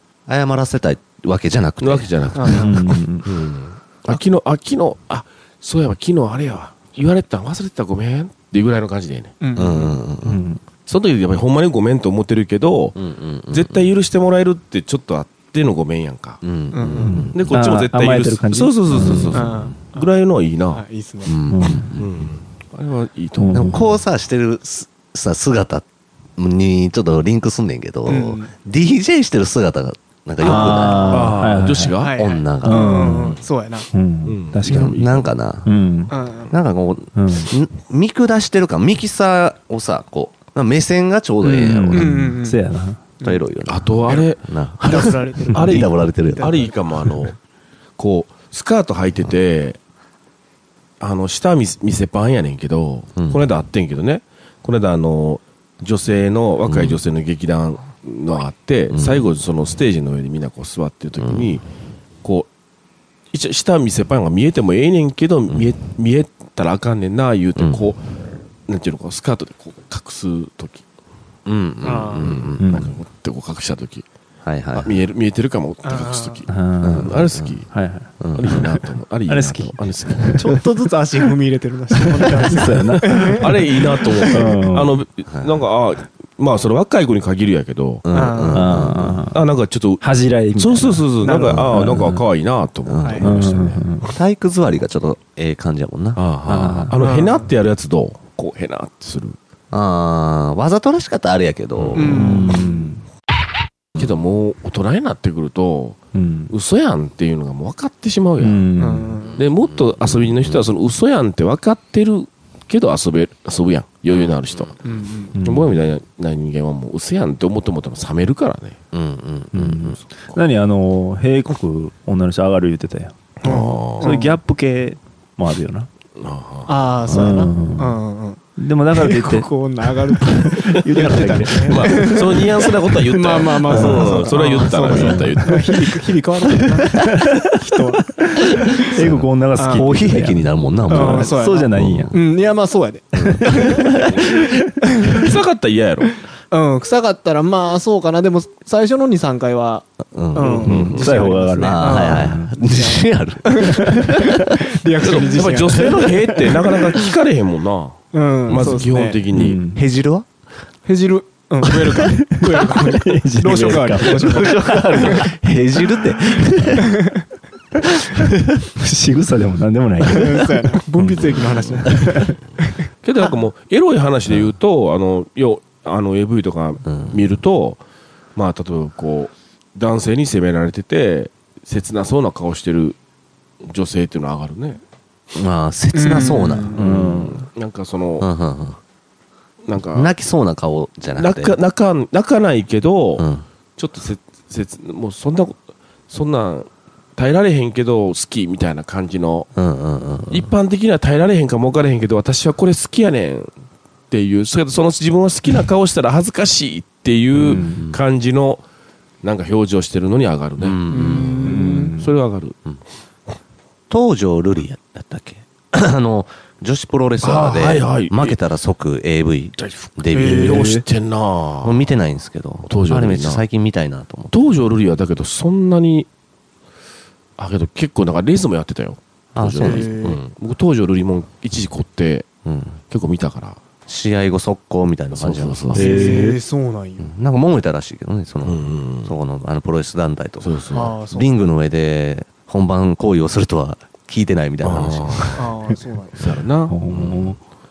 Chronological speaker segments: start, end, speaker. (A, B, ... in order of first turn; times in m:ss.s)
0:00.3-0:02.4 A
0:01.8-0:09.4 B
0:02.3-0:02.8 C
0:02.5-0:03.3 D
0:09.4-0:10.0 C
0:09.5-0:10.4 A
0:10.2-0:10.6 D
0:10.8-0:13.0 B
0:13.0-0:13.9 A
0:13.5-0:16.4 B
0:16.4-0:17.6 A
0:16.7-0:17.3 C
0:17.0-0:19.5 D
0:17.3-0:20.8 B
0:19.3-0:20.1 C
0:20.7-0:21.4 C
0:21.2-0:22.1 A
0:21.5-0:22.0 D
0:21.9-0:23.8 B
0:23.4-0:23.9 D
0:23.5-0:25.8 A
0:26.4-0:31.5 A
0:28.1-0:28.5 C
0:30.4-0:31.9 D
0:30.4-0:31.1 C
0:31.1-0:32.2 B
0:31.9-0:33.9 C
0:32.2-0:33.3 A
0:32.6-0:33.4 D
0:33.9-0:35.0 D
0:34.2-0:35.3 B
0:34.7-0:35.7 A
0:35.6-0:36.1 D
0:36.1-0:36.5 C
0:36.5-0:42.1 A
0:37.1-0:37.5 D
0:41.4-0:42.6 C
0:41.5-0:43.0 D
0:43.2-0:46.7 A
0:43.7-0:47.4 B
0:44.8-0:46.7 C
0:48.0-0:49.8 B
0:51.0-1:01.6 B
0:53.2-0:53.4 A
0:56.7-0:57.0 A
0:58.9-0:59.2 A
1:01.2-1:01.5 A
1:02.2-1:02.5 B
1:03.3-1:08.0 B
1:07.6-1:07.8 A
1:08.7-1:10.8 B
1:11.4-1:12.8 A
1:11.8-1:12.3 C
1:11.8-1:14.0 B
1:12.6-1:12.9 D
1:14.4-1:15.0 A
1:14.7-1:17.7 B
1:15.8-1:16.4 C
1:16.5-1:17.2 D
1:16.8-1:17.6 A
1:17.7-1:18.6 D
1:18.2-1:18.7 A
1:18.3-1:20.6 B
1:19.3-1:20.6 D
1:20.4-1:24.5 C
1:22.4-1:23.6 D
1:23.3-1:28.0 B
1:24.3-1:24.9 D
1:28.0-1:29.2 A
1:28.1-1:28.8 C
1:28.5-1:29.4 D
1:29.3-1:30.0 B
1:30.0-1:32.2 D
1:30.6-1:33.9 B
1:31.2-1:31.8 C
1:32.8-1:33.3 A
1:33.2-1:34.1 D
1:34.0-1:36.2 A
1:36.2-1:39.4 B
1:36.4-1:37.0 D
1:37.0-1:37.5 C
1:39.7-1:42.5 A
1:41.8-1:42.2 B
1:42.0-1:42.9 C
1:42.1-1:43.0 D
1:44.0-1:46.0 B
1:46.1-1:46.5 D
1:46.5-1:48.6 B
1:48.4-1:49.2 D
1:48.8-1:49.4 C
1:49.3-1:54.8 B
1:49.4-1:50.7 A
1:54.8-1:55.3 C
1:55.3-1:58.8 B
1:55.4-1:55.7 D
1:58.9-2:00.0 A
1:59.5-2:03.1 D
2:03.4-2:04.1 B
2:03.4-2:04.4 C
2:04.0-2:05.9 D
2:06.2-2:06.7 B
2:06.6-2:08.4 C
2:07.1-2:08.0 D
2:08.6-2:09.5 D
2:08.9-2:18.9 C
2:10.2-2:12.2 D
2:11.6-2:15.9 B
2:13.7-2:15.7 D
2:16.9-2:22.2 D
2:18.9-2:22.1 A
2:19.6-2:19.9 C
2:20.9-2:25.3 C
2:23.2-2:24.6 A
2:25.0-2:26.1 B
2:26.5-2:36.7 C
2:30.1-2:31.0 A
2:30.4-2:31.3 B
2:30.7-2:32.5 D
2:31.6-2:34.5 A
2:33.6-2:34.2 D
2:35.0-2:39.6 B
2:38.1-2:39.2 C
2:39.3-2:39.8 D
2:39.7-2:40.2 A
2:40.8-2:45.3 C
2:41.6-2:42.0 A
2:42.0-2:44.6 D
2:44.0-2:47.0 A
2:46.8-2:47.2 C
2:48.1-2:48.6 A
2:48.8-2:51.3 D
2:50.0-2:52.8 C
2:51.2-2:52.0 B
2:51.9-2:52.3 D
2:53.0-2:57.8 B
2:56.8-2:57.2 A
2:58.4-3:03.0 B
3:03.6-3:04.8 B
3:05.3-3:06.9 A
3:05.9-3:06.8 C
3:06.7-3:08.3 B
3:06.8-3:07.4 D
3:08.2-3:08.8 A
3:09.6-3:10.1 B
3:09.9-3:11.6 A
3:11.2-3:15.6 B
3:13.2-3:13.4 A
3:16.1-3:19.5 B
3:19.6-3:20.5 A
3:20.3-3:23.5 B
3:24.1-3:28.6 B
3:27.4-3:27.8 D
3:27.5-3:28.0 A
3:29.2-3:32.5 B
3:30.6-3:31.7 A
3:30.9-3:31.9 C
3:31.4-3:32.1 D
3:33.9-3:40.7 A
3:37.2-3:38.4 B
3:39.6-3:41.8 B
3:40.1-3:40.7 C
3:40.4-3:40.8 D
3:41.6-3:44.5 A
3:42.7-3:43.4 B
3:44.3-3:46.1 B
3:47.4-3:52.3 B
3:49.3-3:50.2 A
3:49.6-3:50.2 C
3:52.4-3:52.8 A
3:52.9-3:53.6 B
3:53.9-3:55.9 A
3:55.1-3:56.1 B
3:55.7-3:56.4 D
3:55.7-3:57.1 C
3:57.0-4:05.4 A
3:58.4-3:59.1 B
4:00.4-4:00.9 B
4:00.7-4:01.3 C
4:04.6-4:05.5 B
4:05.4-4:06.2 C
4:06.2-4:07.3 B
4:06.7-4:07.4 D